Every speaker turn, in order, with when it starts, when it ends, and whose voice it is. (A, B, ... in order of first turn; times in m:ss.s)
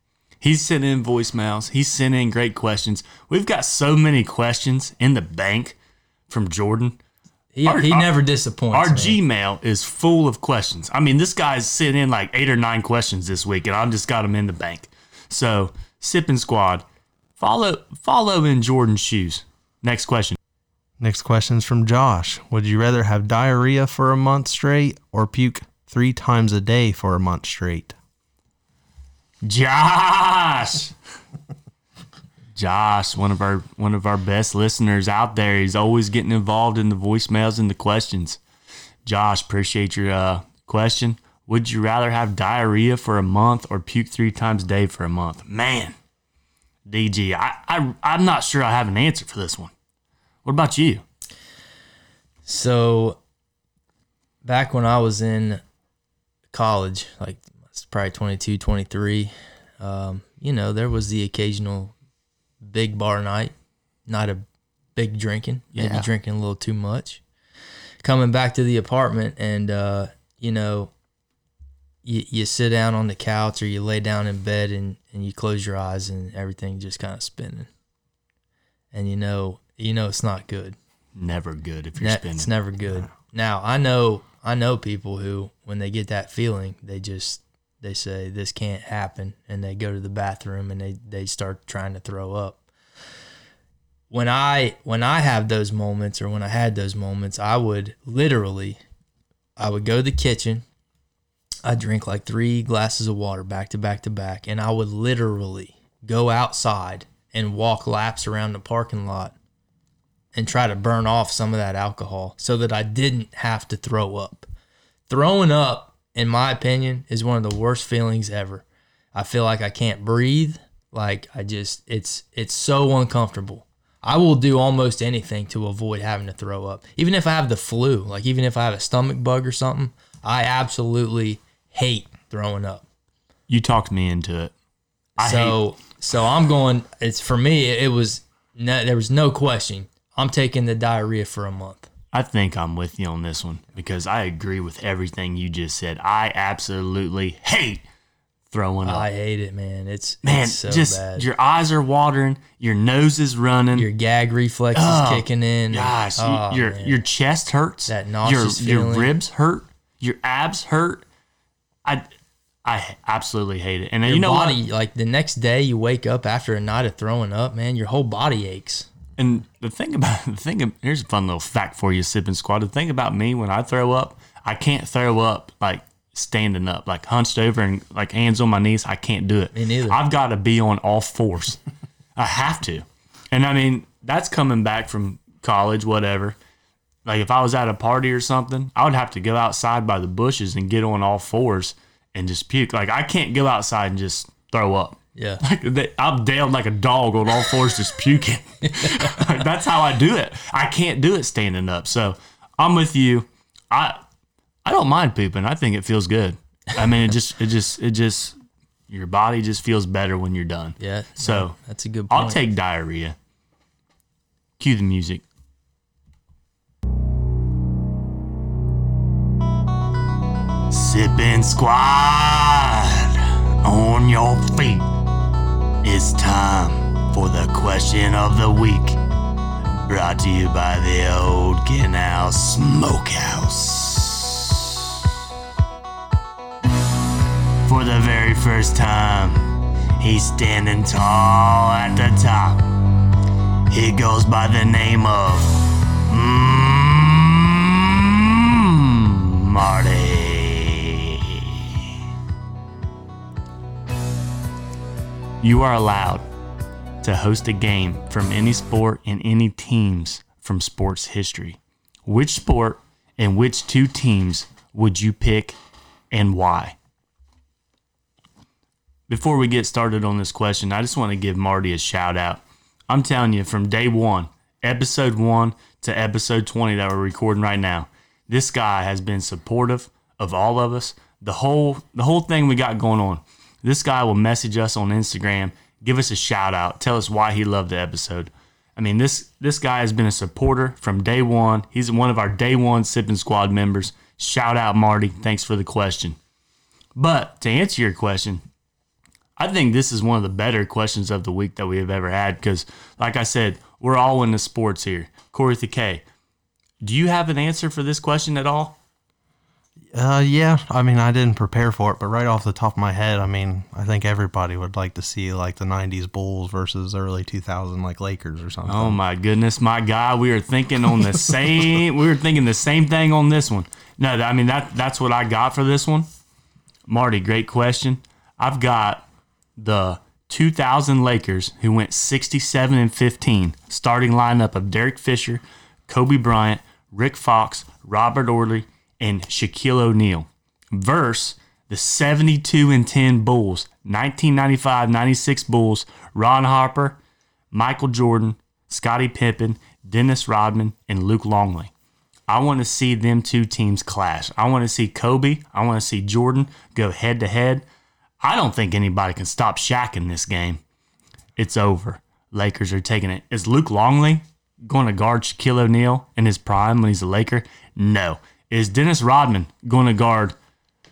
0:00.4-0:05.8 A
0:06.3-0:07.0 A
0:07.5-0:09.2 B
0:07.6-0:08.1 A
0:08.7-0:16.8 A
0:17.4-0:20.4 A
0:21.0-0:28.0 C
0:29.4-0:30.9 A
0:32.6-0:38.4 A
0:39.1-0:46.0 A
0:46.9-0:49.7 A
0:50.4-0:51.0 A
0:52.5-0:53.2 B
0:54.4-0:55.6 B
0:56.5-1:01.9 B
1:02.6-1:03.5 B
1:04.1-1:07.2 B
1:05.7-1:06.1 A
1:08.0-1:10.9 B
1:12.0-1:17.7 B
1:18.9-1:20.8 B
1:21.2-1:22.5 A
1:22.0-1:32.6 B
1:34.1-1:38.8 B
1:39.6-1:40.6 B
1:41.6-1:49.4 B
1:50.3-1:54.5 B
1:55.1-2:12.8 B
2:13.5-2:14.5 A
2:15.2-2:15.6 A
2:15.2-2:21.9 B
2:22.1-2:27.8 A
2:28.5-2:29.1 A
2:28.8-2:31.3 B
2:30.2-2:33.9 A
2:33.8-2:37.0 B
2:34.7-2:41.0 A
2:37.9-2:39.2 B
2:42.6-2:44.6 A
2:44.1-2:48.9 B
2:49.2-3:01.6 A
2:59.5-3:00.0 B
3:02.2-3:06.4 A
3:07.0-3:24.0 A
3:15.2-3:15.4 B
3:18.8-3:19.2 B
3:24.6-3:28.4 A
3:28.9-3:31.6 A
3:30.8-3:32.4 B
3:32.1-3:33.2 A
3:34.6-3:35.2 A
3:40.7-3:44.9 A
3:45.8-3:49.0 A
3:49.8-3:54.7 A
3:57.7-4:02.6 A
4:03.7-4:05.6 A
4:06.1-4:11.6 A
4:15.4-4:16.2 A
4:17.0-4:25.6 A
4:26.1-4:26.8 A
4:29.1-4:56.2 A
4:57.0-4:58.4 A
4:59.4-5:06.0 A
5:06.8-5:08.8 A
5:09.9-5:19.0 C
5:18.7-5:26.1 A
5:26.9-5:29.0 A
5:29.6-5:47.0 A
5:47.5-5:51.7 A
5:52.3-5:57.7 A
5:58.2-6:00.6 A
6:01.4-6:10.4 A